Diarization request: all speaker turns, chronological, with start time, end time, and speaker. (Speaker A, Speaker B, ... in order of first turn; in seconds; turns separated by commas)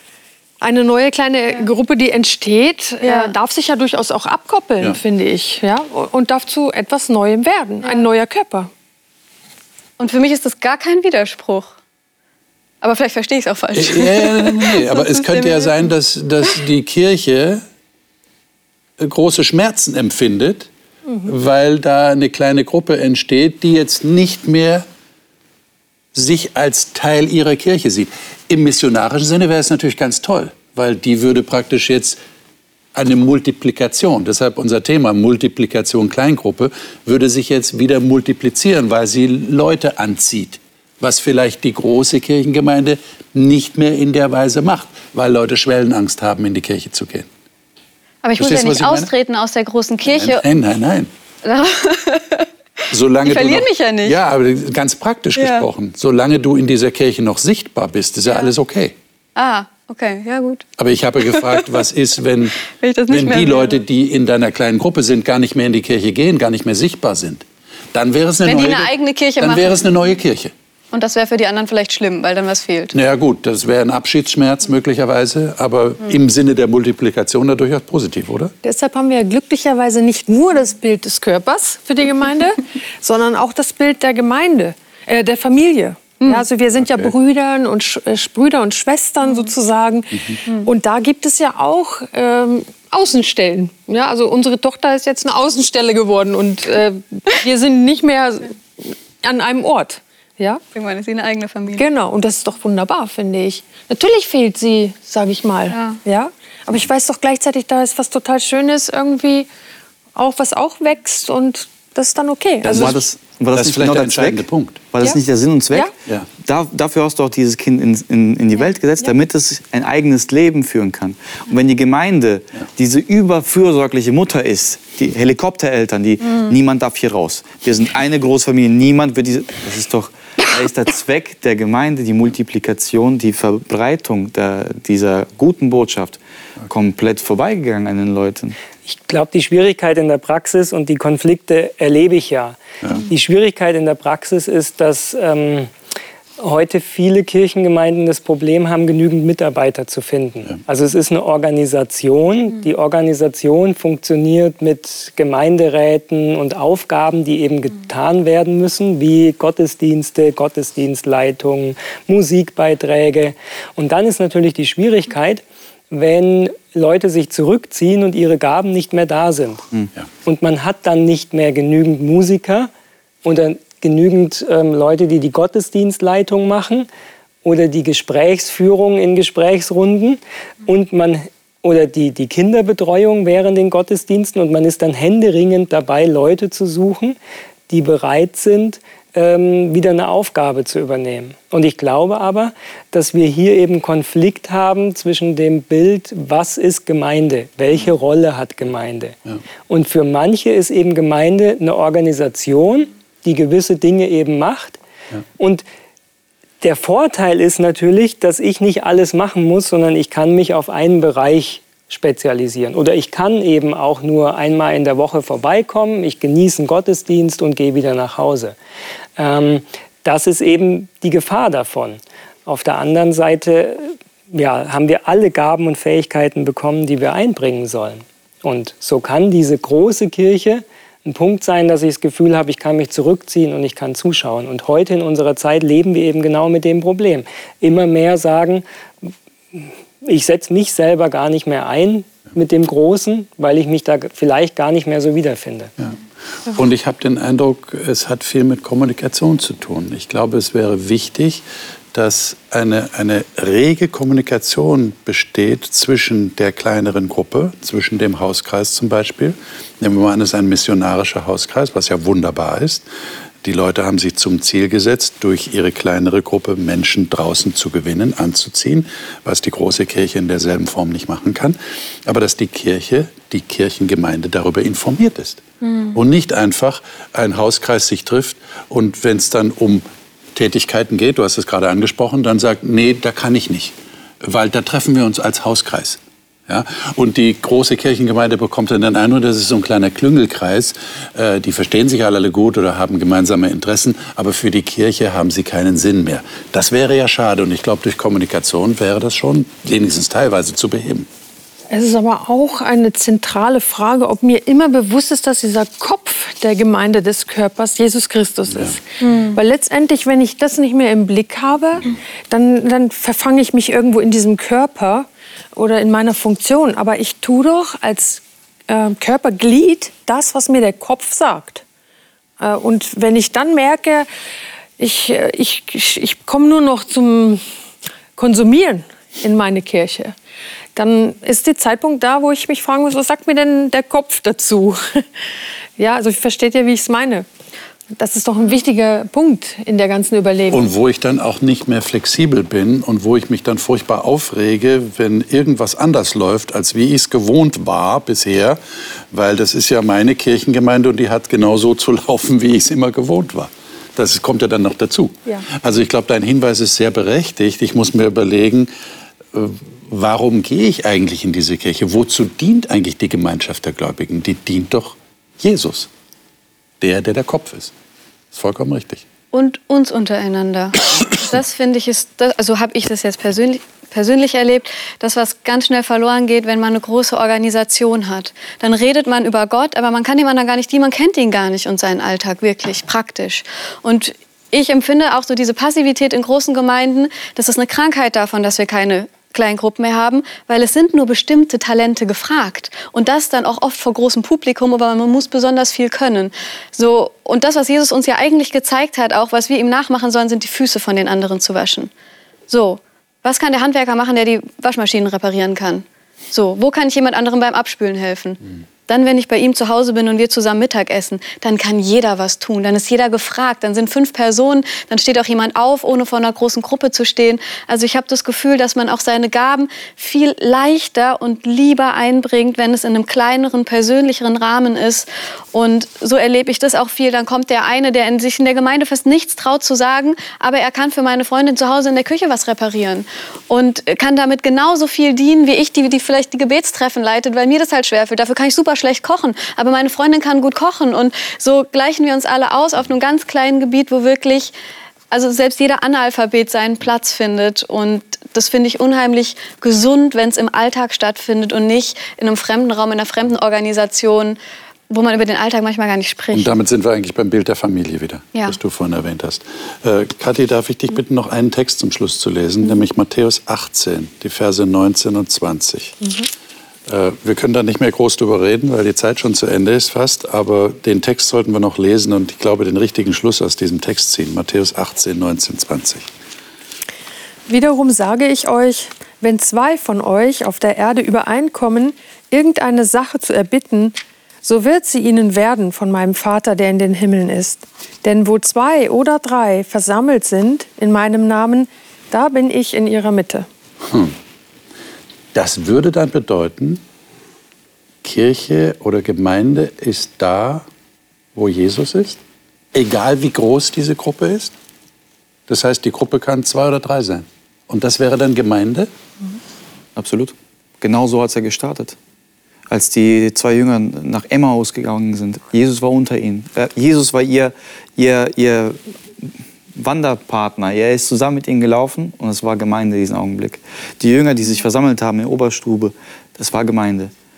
Speaker A: 0.6-8.7, Speaker B: 3.0-3.4, Speaker B: 10.0-11.7, Speaker B: 12.8-15.7, Speaker C: 13.7-17.6, Speaker C: 19.0-20.7, Speaker C: 21.2-24.9, Speaker C: 26.1-32.2, Speaker C: 32.9-47.3, Speaker B: 48.2-50.4, Speaker C: 48.4-49.1, Speaker C: 50.0-51.1, Speaker B: 51.4-52.5, Speaker C: 52.9-58.9, Speaker B: 53.2-54.2, Speaker B: 55.4-55.6, Speaker B: 59.4-60.7, Speaker C: 60.8-70.5, Speaker B: 61.3-61.6, Speaker B: 62.7-63.8, Speaker B: 68.4-69.7, Speaker B: 70.9-72.9, Speaker C: 72.9-78.5, Speaker A: 78.6-100.6, Speaker B: 100.7-101.8, Speaker A: 101.8-109.5, Speaker B: 105.7-106.0, Speaker A: 110.1-113.0, Speaker D: 112.7-138.5, Speaker C: 112.7-114.8, Speaker E: 138.8-145.7, Speaker E: 146.4-169.6, Speaker E: 170.2-172.7, Speaker E: 173.2-176.9, Speaker E: 177.4-187.2, Speaker E: 187.7-199.2, Speaker E: 199.7-204.8, Speaker E: 205.4-205.6, Speaker E: 206.6-218.6, Speaker E: 219.2-245.7, Speaker C: 246.5-262.8, Speaker C: 263.4-301.1, Speaker B: 275.6-276.0, Speaker A: 301.7-321.6, Speaker C: 308.5-308.8, Speaker B: 309.0-309.4, Speaker A: 322.4-324.1, Speaker A: 324.8-327.4, Speaker A: 328.1-330.1, Speaker A: 330.8-335.1, Speaker A: 335.8-337.2, Speaker A: 338.0-340.7, Speaker C: 340.5-348.6, Speaker C: 349.1-358.7, Speaker C: 359.3-365.9, Speaker C: 366.8-367.7, Speaker C: 368.3-369.0, Speaker B: 369.3-401.9, Speaker B: 402.5-444.5, Speaker B: 445.1-454.4, Speaker B: 454.9-456.5, Speaker C: 456.3-466.0, Speaker C: 466.9-476.1, Speaker A: 477.5-493.5, Speaker C: 493.8-494.1, Speaker C: 495.3-496.8, Speaker C: 498.0-500.6, Speaker C: 501.3-502.2, Speaker C: 502.7-504.5, Speaker C: 505.5-508.9, Speaker D: 509.9-511.9, Speaker D: 512.7-527.1